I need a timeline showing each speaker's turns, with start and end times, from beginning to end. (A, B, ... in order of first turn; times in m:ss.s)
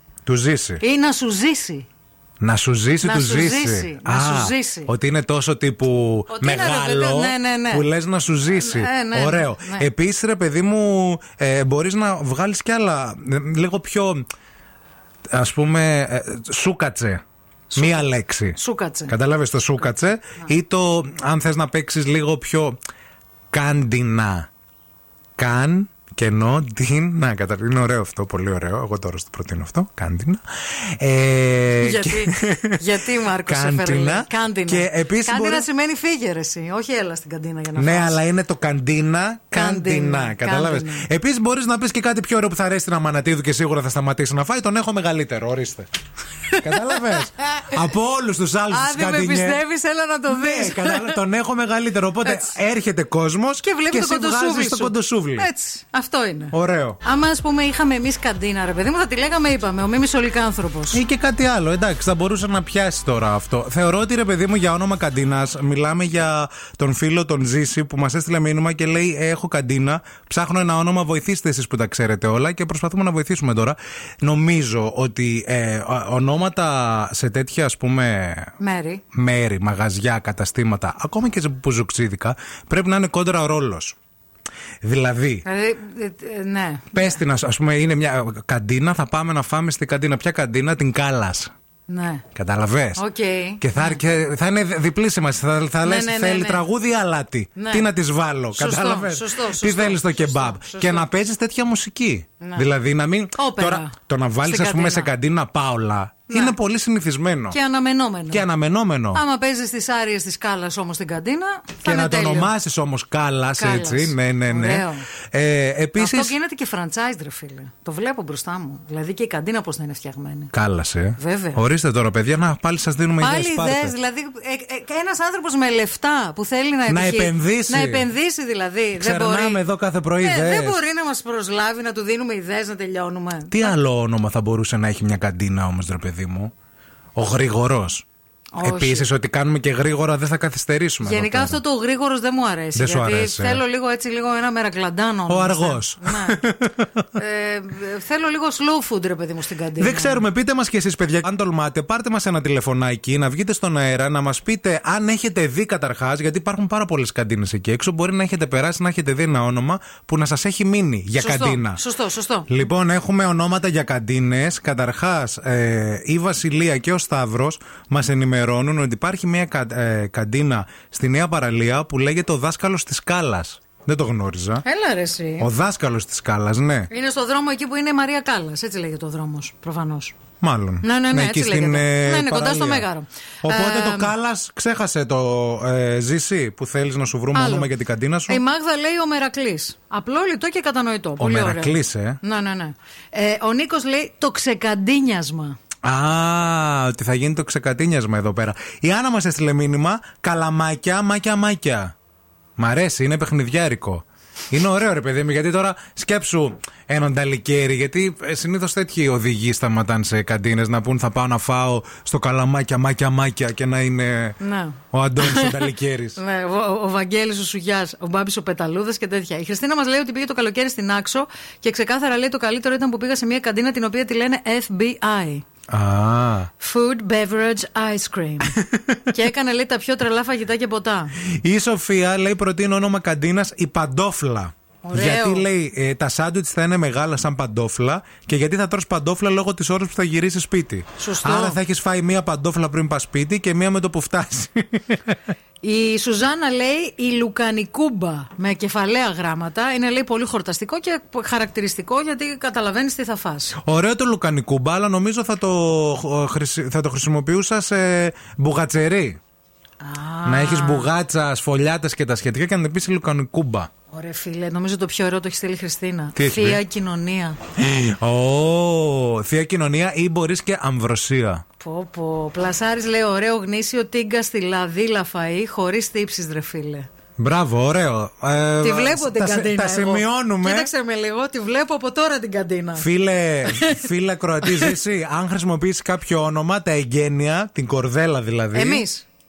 0:00.3-0:00.8 A
0:00.8-0:01.9 B
0:02.4-0:14.2 A
0:03.0-0:04.9 B
0:06.3-0:07.9 B
0:08.5-0:09.9 B
0:15.3-0:17.2 A
0:17.7-0:19.1 B
0:17.8-0:22.8 A
0:23.5-0:24.5 A
0:25.4-0:32.8 A
0:31.8-0:38.2 B
0:33.4-0:35.7 A
0:37.8-0:45.9 A
0:39.5-0:41.1 B
0:46.5-0:47.8 B
0:46.6-0:49.6 A
0:48.7-0:51.2 B
0:50.3-0:55.5 A
0:52.2-0:52.6 B
0:53.6-1:01.0 B
0:56.5-0:57.0 A
1:00.9-1:18.5 A
1:18.6-1:19.0 B
1:19.1-1:24.0 A
1:24.8-1:25.5 A
1:25.4-1:27.2 B
1:26.9-1:31.5 A
1:31.9-1:32.2 B
1:32.3-1:33.0 A
1:33.0-1:34.0 B
1:33.6-1:47.6 A
1:35.8-1:36.6 B
1:37.6-1:37.9 B
1:38.5-1:41.1 B
1:42.4-1:42.7 B
1:43.4-1:43.9 B
1:44.4-1:45.1 B
1:46.3-1:46.6 B
1:47.5-1:48.5 B
1:48.3-1:49.2 A
1:49.1-1:52.5 B
1:51.8-1:56.3 A
1:53.6-1:55.1 B
1:56.0-2:00.5 B
2:00.5-2:03.9 A
2:01.2-2:01.6 B
2:03.2-2:09.6 B
2:06.9-2:08.1 A
2:09.0-2:10.8 A
2:10.2-2:13.8 B
2:13.5-2:16.5 A
2:17.2-2:18.0 A
2:18.5-2:19.1 B
2:18.6-2:21.6 A
2:21.0-2:26.4 B
2:22.8-2:23.6 A
2:25.3-2:27.1 A
2:27.2-2:30.2 B
2:29.8-2:41.8 A
2:41.2-2:42.6 B
2:42.5-2:54.6 A
2:54.6-2:55.5 B
2:55.4-2:56.9 A
2:56.9-3:00.2 B
3:00.4-3:02.9 A
3:00.8-3:04.2 B
3:03.4-3:08.4 A
3:07.3-3:07.7 B
3:08.3-3:15.6 B
3:11.2-3:12.2 A
3:15.8-3:22.0 A
3:22.6-3:34.4 A
3:34.4-3:45.4 B
3:34.9-3:36.2 A
3:45.7-3:46.5 A
3:46.6-3:51.1 B
3:51.4-4:05.2 A
3:54.8-3:55.5 B
4:01.0-4:01.6 B
4:05.6-4:13.6 B
4:13.6-4:19.2 A
4:19.8-4:20.9 B
4:20.2-4:23.7 A
4:23.9-4:27.4 B
4:26.2-4:26.6 A
4:27.6-4:31.4 A
4:31.6-4:36.9 B
4:37.2-4:40.7 A
4:38.6-4:42.9 B
4:42.8-4:48.8 A
4:43.4-4:43.9 B
4:44.4-4:44.8 B
4:48.5-4:49.1 B